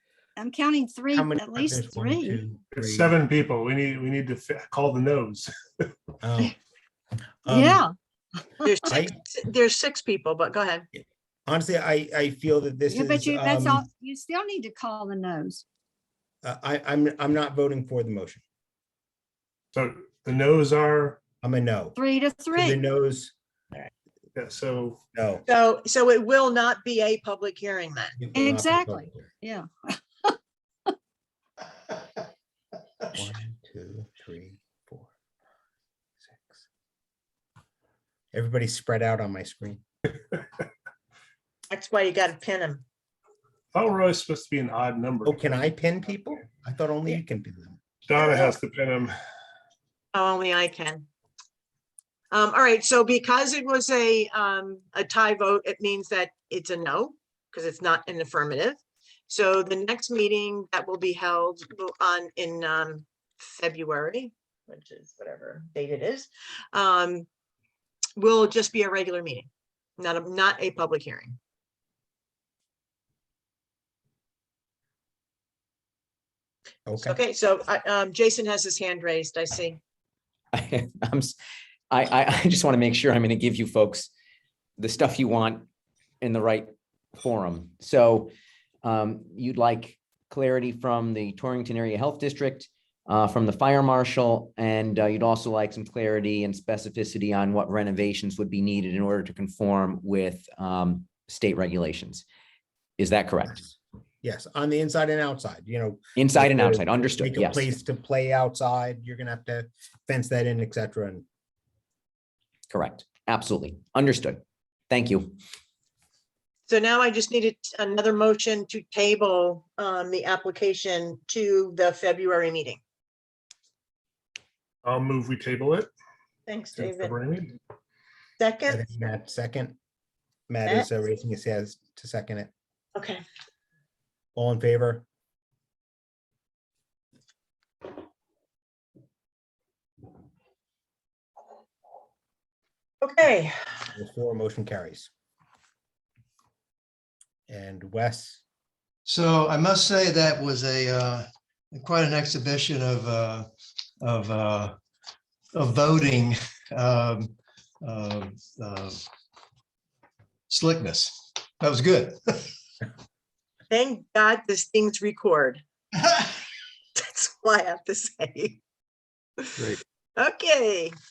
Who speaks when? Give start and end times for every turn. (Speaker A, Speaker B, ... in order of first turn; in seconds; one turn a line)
Speaker A: 0.4-2.4
Speaker B: 1.1-3.1
Speaker C: 2.7-5.8
Speaker B: 6.2-6.5
Speaker B: 7.5-7.8
Speaker A: 7.5-7.9
Speaker D: 8.6-10.9
Speaker B: 8.9-9.1
Speaker B: 11.5-13.8
Speaker A: 12.9-15.6
Speaker B: 16.4-18.4
Speaker C: 19.7-21.2
Speaker B: 21.4-21.9
Speaker A: 21.9-22.8
Speaker B: 22.5-23.3
Speaker C: 24.4-25.0
Speaker B: 25.1-25.4
Speaker D: 25.5-28.2
Speaker B: 28.2-29.2
Speaker A: 28.3-30.3
Speaker B: 33.1-35.1
Speaker B: 36.2-36.6
Speaker B: 38.3-39.8
Speaker D: 41.7-42.8
Speaker C: 43.7-45.4
Speaker B: 45.2-47.8
Speaker C: 48.1-49.1
Speaker D: 50.1-51.1
Speaker D: 52.3-67.3
Speaker D: 68.2-71.4
Speaker B: 76.9-77.2
Speaker D: 77.0-79.8
Speaker E: 80.5-81.3
Speaker E: 81.9-84.1
Speaker E: 84.8-85.7
Speaker E: 86.2-88.3
Speaker E: 88.8-102.2
Speaker E: 103.0-103.7
Speaker B: 104.2-111.2
Speaker E: 106.2-107.7
Speaker E: 112.7-115.3
Speaker D: 116.7-122.8
Speaker C: 124.8-125.9
Speaker D: 126.5-127.2
Speaker C: 126.7-127.5
Speaker D: 128.4-128.8
Speaker B: 128.7-129.8
Speaker B: 130.5-132.5
Speaker D: 132.9-133.2
Speaker B: 134.3-135.1
Speaker D: 143.0-143.6
Speaker B: 143.9-145.1
Speaker B: 147.5-148.4
Speaker F: 149.1-153.5
Speaker F: 154.0-154.8
Speaker F: 155.5-159.0
Speaker F: 160.5-162.5
Speaker D: 163.7-165.6
Speaker D: 166.9-168.6
Speaker D: 170.2-170.9